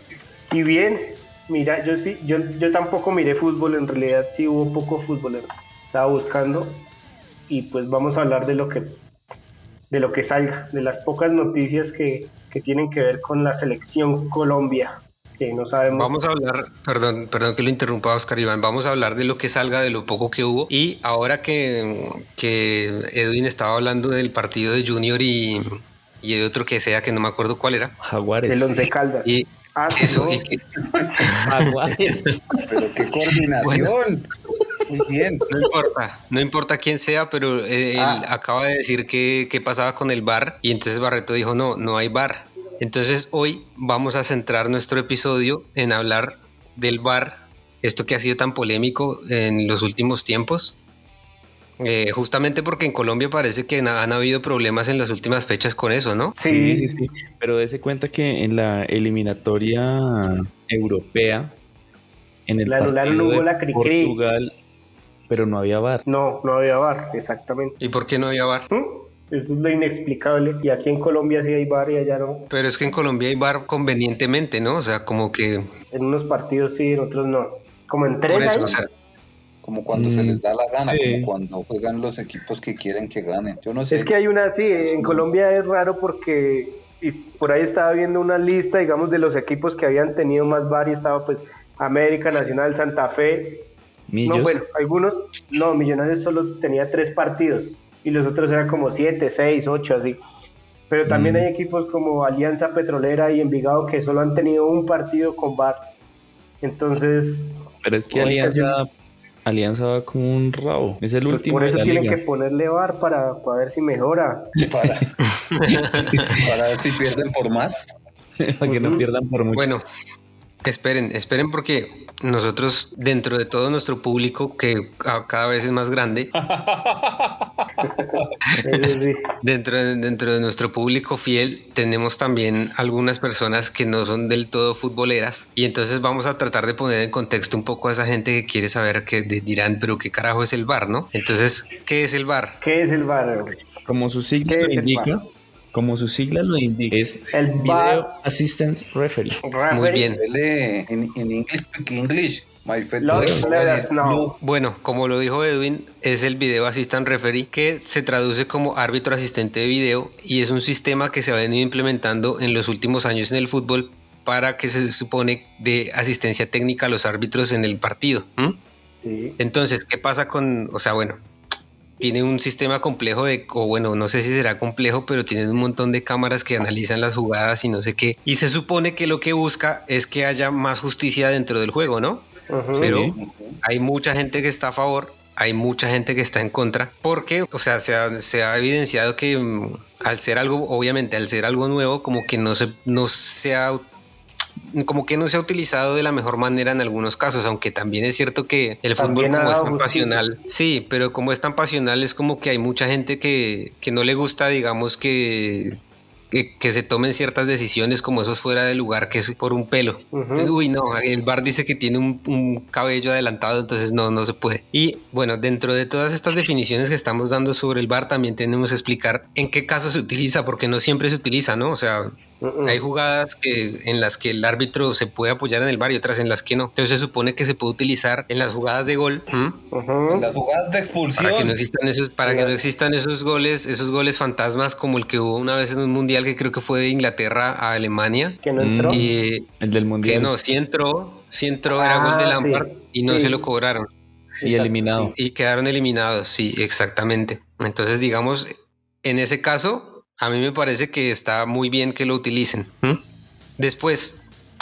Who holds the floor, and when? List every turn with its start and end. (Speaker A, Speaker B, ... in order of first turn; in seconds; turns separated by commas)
Speaker A: 0.5-6.8, Speaker A: 7.5-9.0, Speaker A: 9.9-16.1, Speaker B: 15.9-27.9, Speaker C: 28.0-28.7, Speaker A: 28.5-30.4, Speaker B: 29.2-30.5, Speaker B: 31.2-32.4, Speaker C: 31.4-32.4, Speaker D: 32.7-34.3, Speaker B: 33.6-33.9, Speaker D: 34.9-35.4, Speaker B: 35.5-50.8, Speaker A: 38.0-38.3, Speaker B: 51.8-56.4, Speaker A: 56.4-56.9, Speaker C: 56.4-61.5, Speaker C: 62.5-64.5, Speaker A: 62.6-64.2, Speaker C: 65.3-66.0, Speaker A: 66.0-67.8, Speaker B: 67.8-68.7, Speaker A: 68.7-72.5, Speaker B: 72.5-75.7, Speaker A: 75.9-78.8, Speaker B: 78.3-78.9, Speaker D: 79.6-84.1, Speaker C: 79.9-81.3, Speaker A: 83.9-93.7, Speaker D: 84.7-85.3, Speaker C: 94.1-94.6, Speaker A: 94.2-100.2, Speaker A: 100.9-105.8, Speaker C: 101.1-101.5, Speaker A: 106.6-107.6, Speaker C: 107.8-108.9, Speaker A: 108.1-108.8, Speaker C: 109.4-112.2, Speaker A: 111.3-114.5, Speaker D: 114.6-115.2, Speaker B: 115.3-116.4, Speaker C: 115.7-116.4, Speaker D: 116.3-117.8, Speaker C: 118.4-119.7, Speaker A: 118.7-119.0, Speaker B: 119.5-119.8, Speaker B: 120.6-126.3, Speaker D: 126.4-127.7, Speaker A: 127.8-129.2, Speaker B: 128.5-128.9, Speaker B: 129.4-142.6, Speaker A: 142.6-143.6, Speaker C: 143.8-149.4, Speaker A: 144.5-145.2, Speaker A: 147.3-148.1, Speaker A: 149.4-150.1, Speaker B: 149.7-150.2, Speaker D: 150.2-154.4, Speaker A: 153.0-154.4, Speaker C: 153.1-153.4, Speaker B: 154.4-168.6, Speaker A: 169.0-169.4, Speaker B: 169.4-171.2, Speaker B: 172.0-182.3, Speaker A: 182.5-182.9, Speaker C: 182.8-183.2, Speaker B: 182.8-193.8, Speaker D: 183.2-183.6, Speaker B: 194.7-205.8, Speaker A: 199.0-200.2, Speaker B: 206.3-222.1, Speaker A: 210.1-210.6, Speaker A: 222.4-222.8, Speaker B: 222.7-229.6, Speaker A: 229.7-230.3, Speaker D: 230.1-231.6, Speaker B: 231.2-239.5, Speaker A: 232.2-232.6, Speaker A: 238.4-239.0, Speaker C: 238.6-239.1, Speaker C: 239.6-240.3, Speaker B: 240.0-243.9, Speaker A: 241.8-243.4, Speaker A: 244.4-245.1, Speaker C: 244.4-245.1, Speaker B: 245.2-253.0, Speaker B: 253.6-254.3